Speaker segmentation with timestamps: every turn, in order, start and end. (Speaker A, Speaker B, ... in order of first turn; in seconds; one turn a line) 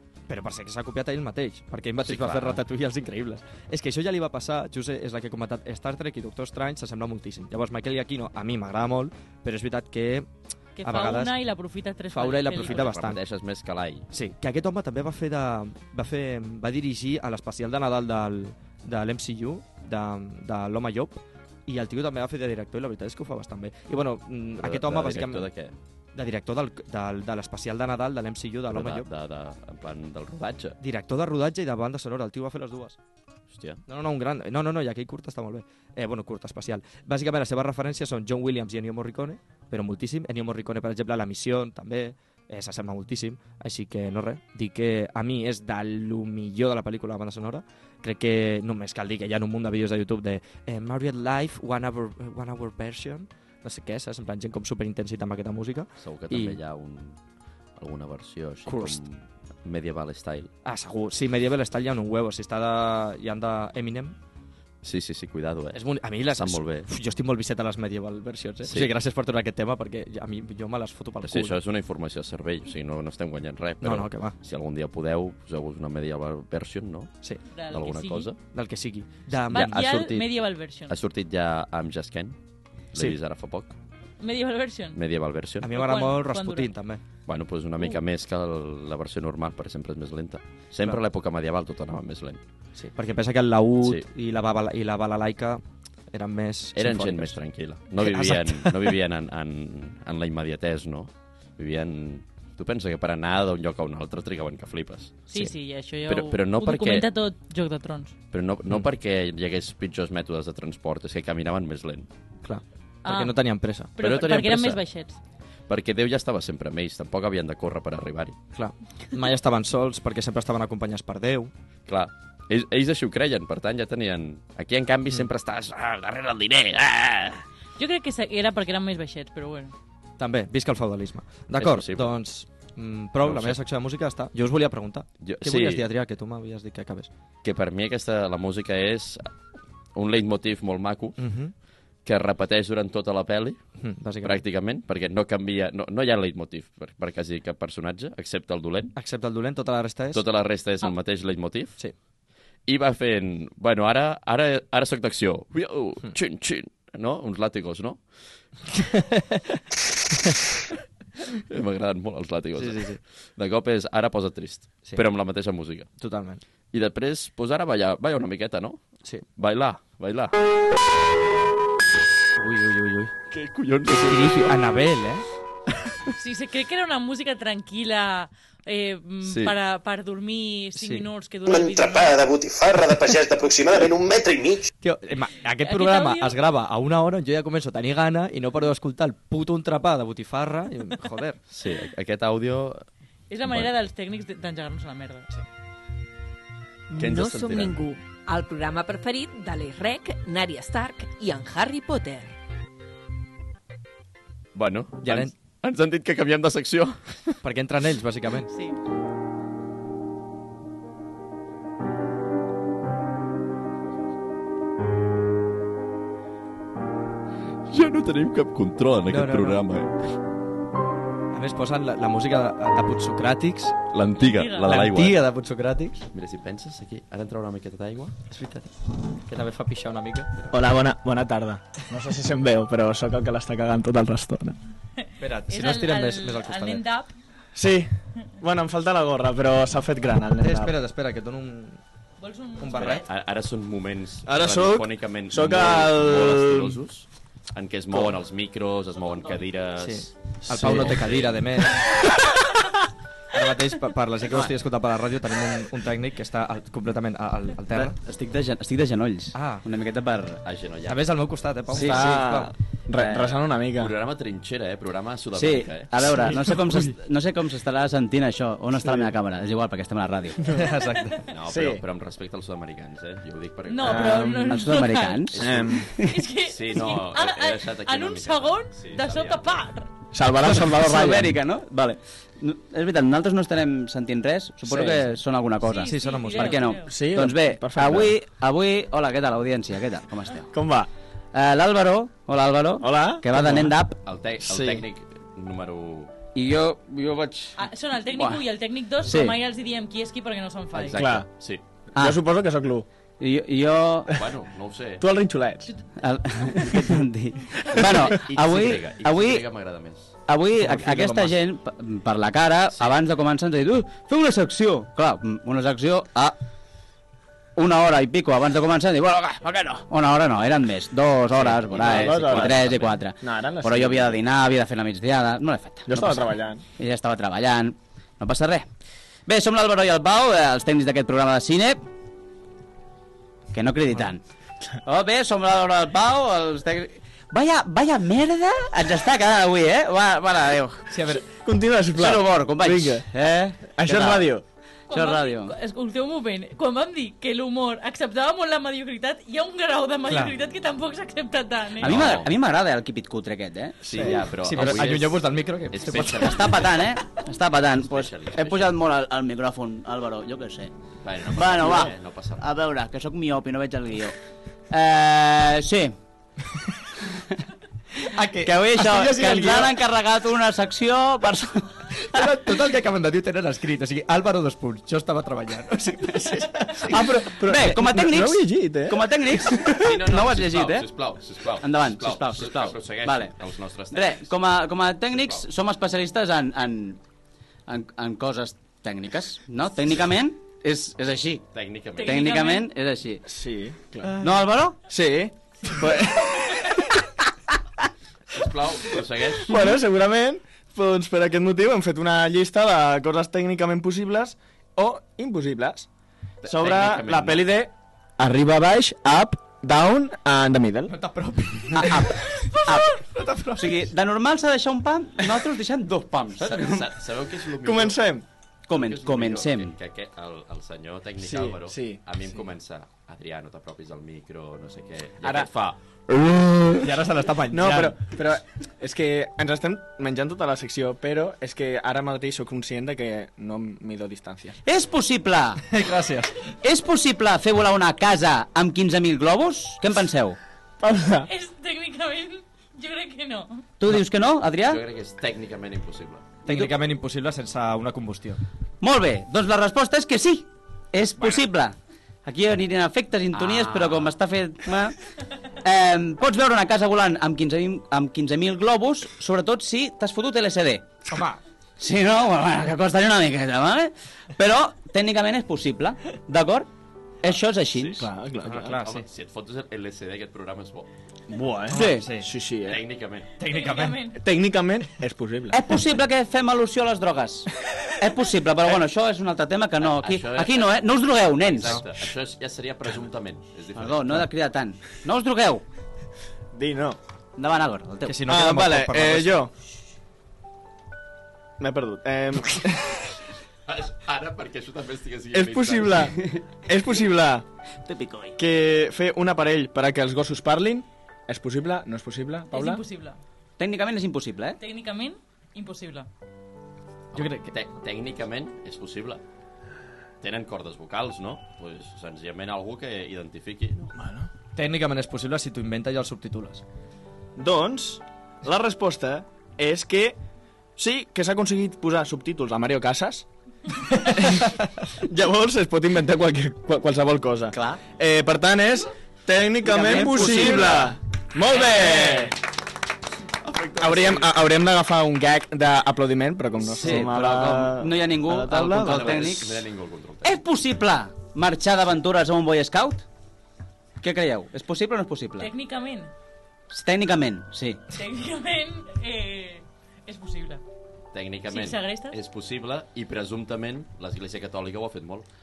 Speaker A: 0.3-10.3
Speaker B: 2.0-2.6
Speaker C: 10.8-12.9
Speaker A: 10.8-11.3
Speaker A: 12.1-13.2
Speaker B: 12.6-14.1
Speaker A: 14.1-25.5
Speaker B: 24.6-25.7
Speaker A: 26.1-29.1
Speaker B: 28.7-30.8
Speaker A: 30.8-33.0
Speaker B: 33.5-33.8
Speaker A: 33.9-56.6
Speaker B: 56.0-57.2
Speaker B: 57.8-60.5
Speaker A: 58.6-59.0
Speaker A: 60.6-64.2
Speaker B: 64.8-66.9
Speaker A: 65.7-71.6
Speaker B: 68.6-68.9
Speaker B: 71.2-77.1
Speaker A: 73.8-74.3
Speaker C: 77.5-78.3
Speaker B: 77.7-78.4
Speaker A: 78.5-79.8
Speaker B: 79.5-80.3
Speaker C: 79.5-80.9
Speaker B: 80.9-82.4
Speaker B: 82.9-83.7
Speaker C: 84.2-85.0
Speaker B: 84.9-85.7
Speaker A: 85.6-87.0
Speaker C: 85.7-86.7
Speaker B: 87.3-92.4
Speaker A: 92.8-97.4
Speaker B: 96.8-105.2
Speaker A: 98.0-99.0
Speaker C: 105.3-108.1
Speaker B: 106.1-107.1
Speaker B: 108.3-112.1
Speaker A: 112.4-113.9
Speaker C: 113.0-113.4
Speaker C: 114.0-115.2
Speaker B: 114.0-114.8
Speaker B: 115.7-118.3
Speaker A: 118.5-121.5
Speaker B: 121.9-127.4
Speaker C: 127.8-129.7
Speaker A: 130.2-137.1
Speaker B: 131.6-132.1
Speaker B: 133.2-133.6
Speaker B: 135.2-135.8
Speaker B: 137.4-139.3
Speaker B: 139.9-141.2
Speaker A: 141.2-141.5
Speaker B: 142.0-143.6
Speaker A: 143.8-144.4
Speaker B: 144.2-148.9
Speaker A: 148.9-150.2
Speaker B: 150.1-151.8
Speaker B: 152.7-158.0
Speaker A: 158.7-160.4
Speaker B: 161.3-165.9
Speaker A: 162.6-163.0
Speaker A: 166.0-166.4
Speaker B: 166.7-168.8
Speaker B: 169.3-170.3
Speaker A: 172.4-173.1
Speaker B: 173.3-174.6
Speaker A: 173.9-175.2
Speaker C: 176.1-182.2
Speaker B: 179.2-179.5
Speaker A: 180.8-181.1
Speaker D: 181.5-184.7
Speaker A: 184.8-191.4
Speaker C: 185.6-186.3
Speaker B: 191.5-192.8
Speaker C: 193.3-195.3
Speaker B: 193.4-193.7
Speaker E: 196.9-202.3
Speaker B: 196.9-197.8
Speaker B: 204.5-207.3
Speaker A: 205.0-205.3
Speaker A: 207.4-208.5
Speaker C: 208.5-208.8
Speaker B: 217.7-220.1
Speaker A: 219.1-219.6
Speaker A: 221.3-223.8
Speaker B: 223.9-225.2
Speaker C: 224.2-224.7
Speaker A: 224.6-226.1
Speaker B: 226.1-228.1
Speaker A: 228.3-230.6
Speaker F: 230.5-234.6
Speaker A: 235.2-236.8
Speaker C: 235.5-237.1
Speaker F: 237.5-240.7
Speaker A: 240.4-241.8
Speaker C: 242.2-243.0
Speaker A: 242.6-243.0
Speaker B: 242.7-251.4
Speaker F: 244.2-246.8
Speaker A: 249.8-252.0
Speaker A: 253.3-257.9
Speaker G: 257.7-260.4
Speaker A: 259.3-259.6
Speaker B: 260.4-261.0
Speaker A: 260.9-262.5
Speaker G: 261.7-262.2
Speaker F: 261.8-263.9
Speaker G: 262.9-263.3
Speaker B: 263.7-265.9
Speaker G: 265.3-270.4
Speaker F: 268.8-269.1
Speaker A: 270.5-271.2
Speaker B: 271.3-274.1
Speaker F: 271.5-271.8
Speaker C: 273.7-275.4
Speaker F: 273.8-274.7
Speaker G: 274.4-276.2
Speaker B: 275.3-275.9
Speaker F: 275.4-275.8
Speaker C: 276.0-279.9
Speaker B: 276.4-279.5
Speaker F: 280.1-281.4
Speaker G: 280.4-290.5
Speaker F: 284.7-285.1
Speaker C: 285.6-286.9
Speaker A: 285.7-286.7
Speaker F: 286.9-288.1
Speaker F: 290.5-290.9
Speaker G: 291.3-294.0
Speaker F: 292.8-293.7
Speaker B: 294.0-296.1
Speaker F: 294.5-294.8
Speaker G: 296.3-297.6
Speaker C: 297.6-301.0
Speaker G: 298.1-298.4
Speaker G: 299.0-299.4
Speaker B: 300.7-301.6
Speaker F: 301.0-301.3
Speaker G: 301.9-302.2
Speaker F: 302.0-302.9
Speaker G: 303.2-304.1
Speaker B: 304.1-305.0
Speaker F: 305.0-305.7
Speaker G: 306.0-309.4
Speaker B: 307.8-310.1
Speaker A: 308.3-308.7
Speaker G: 310.3-316.4
Speaker A: 310.6-311.4
Speaker G: 317.6-328.7
Speaker B: 321.4-323.0
Speaker F: 321.7-324.2
Speaker F: 325.9-326.6
Speaker G: 329.3-331.8
Speaker G: 333.5-334.2
Speaker G: 334.8-340.9
Speaker A: 340.9-341.2
Speaker F: 341.4-343.1
Speaker G: 341.9-344.4
Speaker F: 343.7-344.4
Speaker C: 344.9-352.0
Speaker G: 344.9-345.5
Speaker A: 350.1-350.3
Speaker G: 351.8-353.8
Speaker B: 351.8-352.3
Speaker B: 353.8-356.7
Speaker F: 353.9-354.2
Speaker A: 354.2-356.6
Speaker G: 356.2-360.7
Speaker B: 357.8-358.7
Speaker B: 361.0-362.4
Speaker G: 361.3-364.1
Speaker G: 364.7-365.9
Speaker A: 368.1-369.8
Speaker G: 368.4-372.3
Speaker A: 372.1-377.0
Speaker G: 376.8-380.9
Speaker F: 376.9-379.1
Speaker B: 379.7-384.3
Speaker G: 381.6-383.4
Speaker G: 383.9-387.0
Speaker B: 385.2-385.4
Speaker G: 387.7-391.4
Speaker B: 391.5-392.2
Speaker C: 392.0-392.7
Speaker G: 392.0-393.2
Speaker F: 393.3-394.2
Speaker G: 394.1-394.8
Speaker F: 394.9-396.9
Speaker B: 398.3-399.5
Speaker F: 399.5-405.9
Speaker B: 406.4-407.5
Speaker F: 406.4-410.9
Speaker A: 410.9-413.8
Speaker G: 411.7-413.0
Speaker G: 413.6-416.9
Speaker B: 416.4-418.0
Speaker F: 417.6-418.2
Speaker G: 418.7-419.7
Speaker B: 418.7-425.8
Speaker F: 421.2-422.0
Speaker F: 425.2-425.5
Speaker F: 426.1-426.8
Speaker A: 426.8-428.0
Speaker F: 427.5-434.6
Speaker G: 434.6-435.6
Speaker A: 435.6-436.4
Speaker G: 436.6-440.4
Speaker F: 440.8-441.3
Speaker C: 441.3-443.6
Speaker G: 443.8-444.8
Speaker B: 444.6-446.2
Speaker A: 446.4-448.4
Speaker G: 448.8-454.9
Speaker B: 453.3-454.1
Speaker G: 455.6-460.9
Speaker A: 461.1-461.4
Speaker G: 461.8-466.7
Speaker G: 467.2-468.1
Speaker B: 467.7-470.9
Speaker F: 468.0-468.7
Speaker A: 468.4-469.0
Speaker F: 471.3-472.8
Speaker A: 471.7-472.3
Speaker G: 471.7-472.1
Speaker B: 472.6-473.3
Speaker A: 473.4-474.0
Speaker C: 473.4-474.2
Speaker F: 474.2-475.8
Speaker G: 475.5-481.8
Speaker B: 479.8-480.7
Speaker B: 481.4-484.2
Speaker G: 483.7-485.6
Speaker F: 486.5-487.0
Speaker G: 487.4-488.2
Speaker A: 488.0-489.4
Speaker F: 488.3-489.5
Speaker F: 491.6-493.1
Speaker B: 493.7-496.1
Speaker F: 495.3-497.4
Speaker G: 497.8-498.4
Speaker F: 498.4-502.8
Speaker C: 502.5-503.2
Speaker G: 503.6-504.6
Speaker C: 504.6-506.1
Speaker A: 507.1-507.5
Speaker B: 507.1-509.2
Speaker B: 510.2-513.9
Speaker F: 513.9-514.3
Speaker A: 514.5-516.6
Speaker F: 517.4-520.2
Speaker F: 520.8-523.3
Speaker F: 523.9-532.4
Speaker G: 527.5-527.8
Speaker G: 529.6-530.9
Speaker B: 530.2-530.9
Speaker B: 531.6-532.2
Speaker B: 533.4-534.4
Speaker F: 533.8-539.3
Speaker B: 536.7-537.8
Speaker G: 536.8-539.6
Speaker B: 538.5-540.4
Speaker G: 540.2-543.0
Speaker G: 544.0-545.5
Speaker C: 545.4-546.1
Speaker G: 546.7-547.8
Speaker C: 547.9-550.6
Speaker B: 551.1-555.2
Speaker C: 551.5-552.1